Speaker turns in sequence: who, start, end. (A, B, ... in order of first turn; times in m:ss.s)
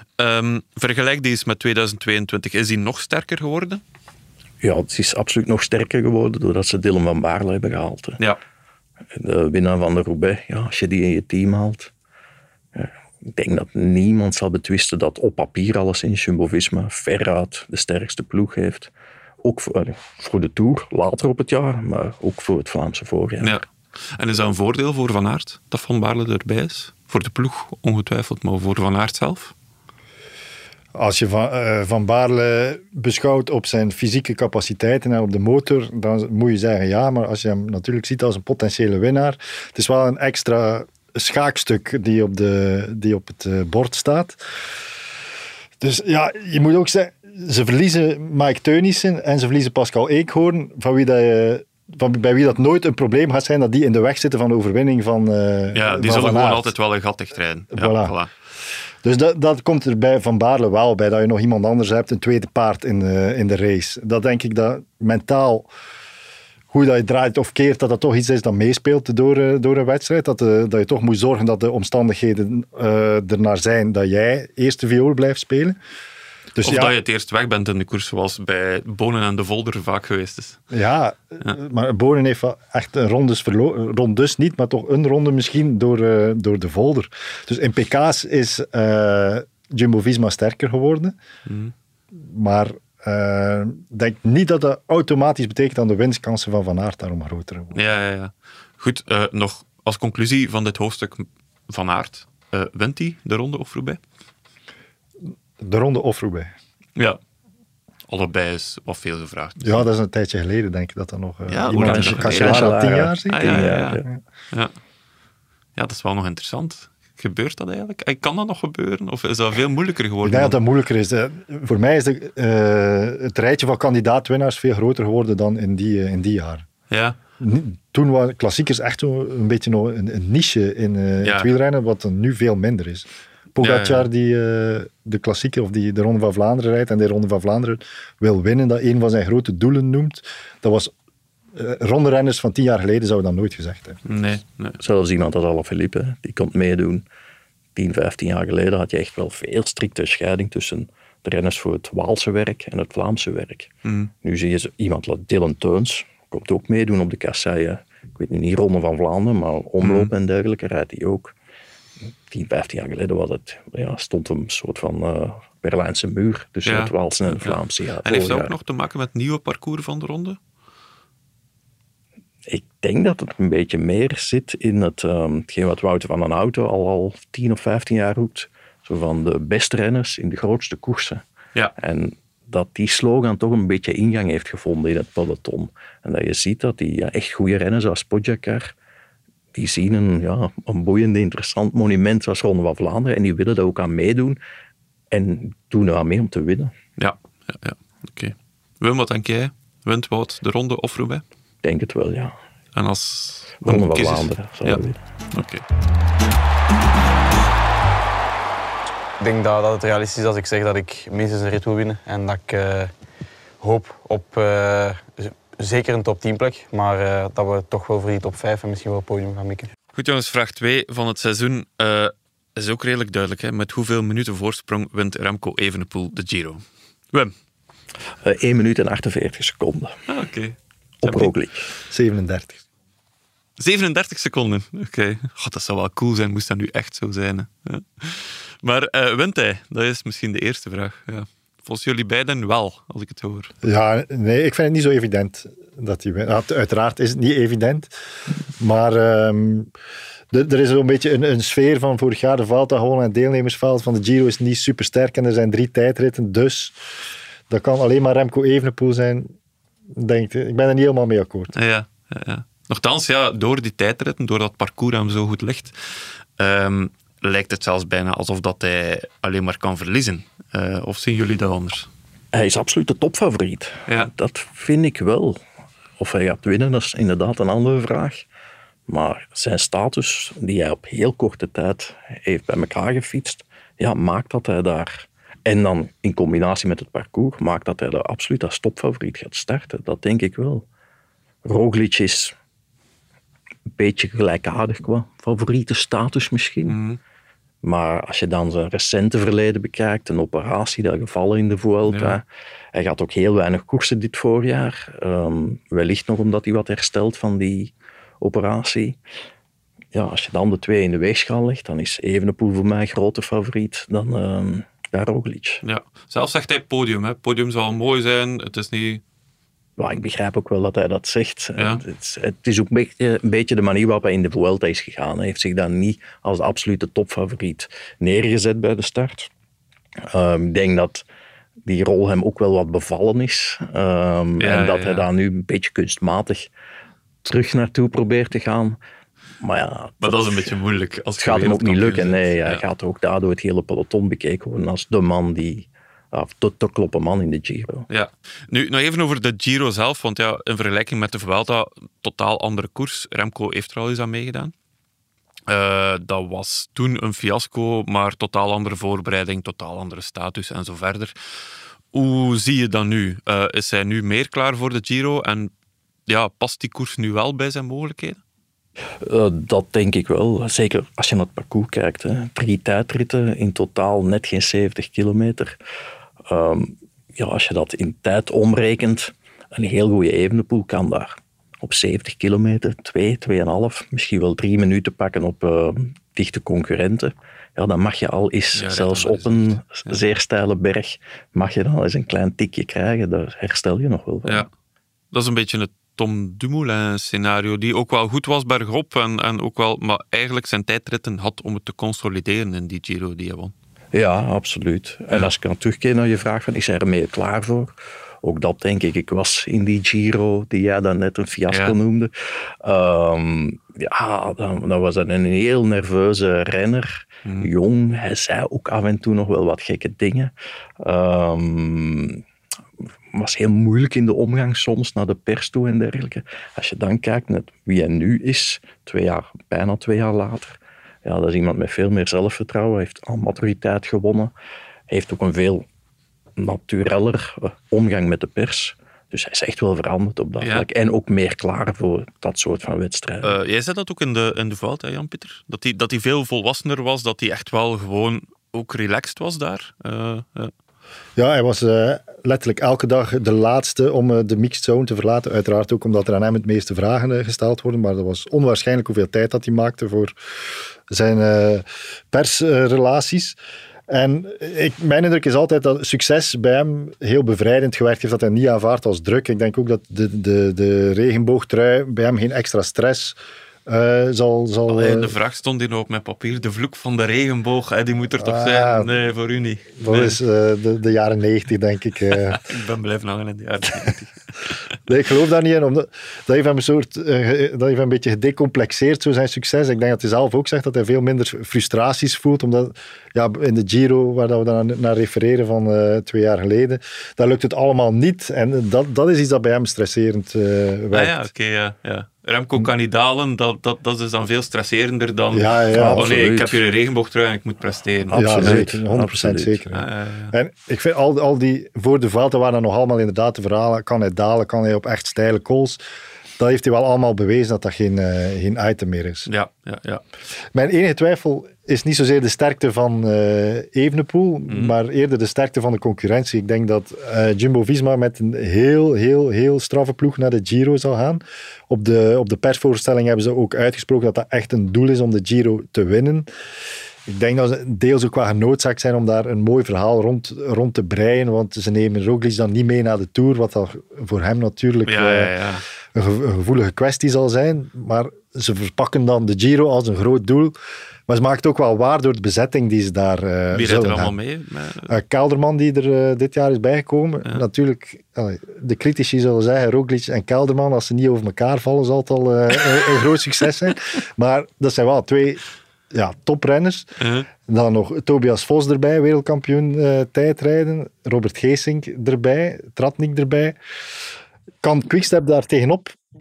0:00.2-0:03.8 A
0:04.6-0:08.2 B
0:09.2-0:11.9 B
0:12.7-0:18.9 B
0:19.4-0:23.6 B
0:23.4-0:29.5 A
0:30.9-0:44.4 C
0:45.8-0:56.7 C
0:55.7-0:58.3 A
0:57.7-0:58.1 C
0:59.0-1:05.7 C
1:06.7-1:15.8 C
1:16.5-1:16.9 C
1:16.6-1:20.6 A
1:20.7-1:31.1 C
1:31.4-1:31.7 A
1:32.1-1:37.8 C
1:37.7-1:44.0 A
1:45.6-1:46.5 C
1:48.1-1:49.9 A
1:49.6-1:54.2 C
1:51.5-1:54.7 A
1:51.7-1:54.0 B
1:55.8-2:00.6 A
2:00.2-2:06.7 C
2:06.9-2:07.2 A
2:07.4-2:20.9 C
2:11.2-2:11.5 A
2:13.6-2:14.1 A
2:21.6-2:24.0 C
2:24.0-2:24.8 A
2:24.8-2:27.0 B
2:27.8-2:33.7 B
2:33.8-2:34.1 A
2:34.2-2:41.3 B
2:39.8-2:40.1 A
2:42.3-2:48.5 B
2:46.6-2:50.4 A
2:52.5-3:01.2 B
3:01.8-3:08.7 B
3:09.5-3:14.4 B
3:15.1-3:16.7 B
3:17.0-3:21.2 A
3:21.6-3:22.3 B
3:22.7-3:24.8 A
3:23.6-3:25.0 B
3:25.3-3:25.6 A
3:29.2-3:32.9 D
3:33.6-3:39.7 D
3:39.9-3:47.3 A
3:48.2-3:50.0 B
3:50.1-3:51.3 A
3:51.0-3:51.7 B
3:51.9-3:52.6 C
3:53.6-4:03.5 A
4:03.6-4:07.9 C
4:08.6-4:09.7 C
4:10.3-4:16.7 C
4:17.5-4:19.3 C
4:20.0-4:21.5 C
4:21.5-4:31.9 A
4:32.3-4:35.4 B
4:36.0-4:38.2 B
4:38.9-4:50.6 B
4:51.4-4:52.3 B
4:53.8-4:56.8 B
4:56.7-4:57.0 A
4:57.6-5:09.0 B
5:01.9-5:02.2 A
5:09.9-5:15.6 B
5:15.6-5:19.0 A
5:19.8-5:29.3 B
5:21.6-5:21.8 A
5:30.1-5:31.0 B
5:31.6-5:36.5 B
5:34.4-5:35.1 A
5:37.2-5:38.8 B
5:39.4-5:40.5 B
5:40.0-5:42.6 A
5:41.2-5:47.8 B
5:47.9-5:54.5 A
5:55.5-6:01.1 A
6:01.9-6:05.5 A
6:06.1-6:08.2 A
6:09.0-6:15.6 B
6:16.3-6:34.5 B
6:28.5-6:30.0 A
6:35.1-6:43.5 A
6:43.9-6:52.1 B
6:51.5-6:51.8 A
6:52.6-7:02.2 B
6:57.2-6:57.5 A
7:03.1-7:14.3 B
7:14.9-7:15.6 B
7:16.4-7:23.4 B
7:20.4-7:20.6 A
7:23.2-7:30.5 A
7:31.2-7:40.1 C
7:40.9-7:43.4 C
7:43.9-7:53.2 C
7:53.7-7:55.1 C
7:54.7-8:00.2 A
7:58.2-7:58.9 C
7:59.8-8:02.4 C
8:02.3-8:04.5 A
8:04.9-8:21.3 C
8:20.9-8:28.7 A
8:25.3-8:26.1 C
8:25.7-8:26.6 B
8:28.1-8:29.6 B
8:28.1-8:35.8 C
8:29.7-8:30.3 A
8:36.4-8:39.3 C
8:39.3-8:40.0 A
8:40.5-8:56.3 C
8:44.5-8:44.7 A
8:57.1-9:05.3 C
9:04.8-9:05.6 A
9:05.9-9:10.6 C
9:11.1-9:14.2 C
9:13.5-9:14.9 A
9:14.9-9:25.4 C
9:25.9-9:26.9 C
9:27.0-9:27.3 A
9:27.5-9:33.6 C
9:34.6-9:35.9 C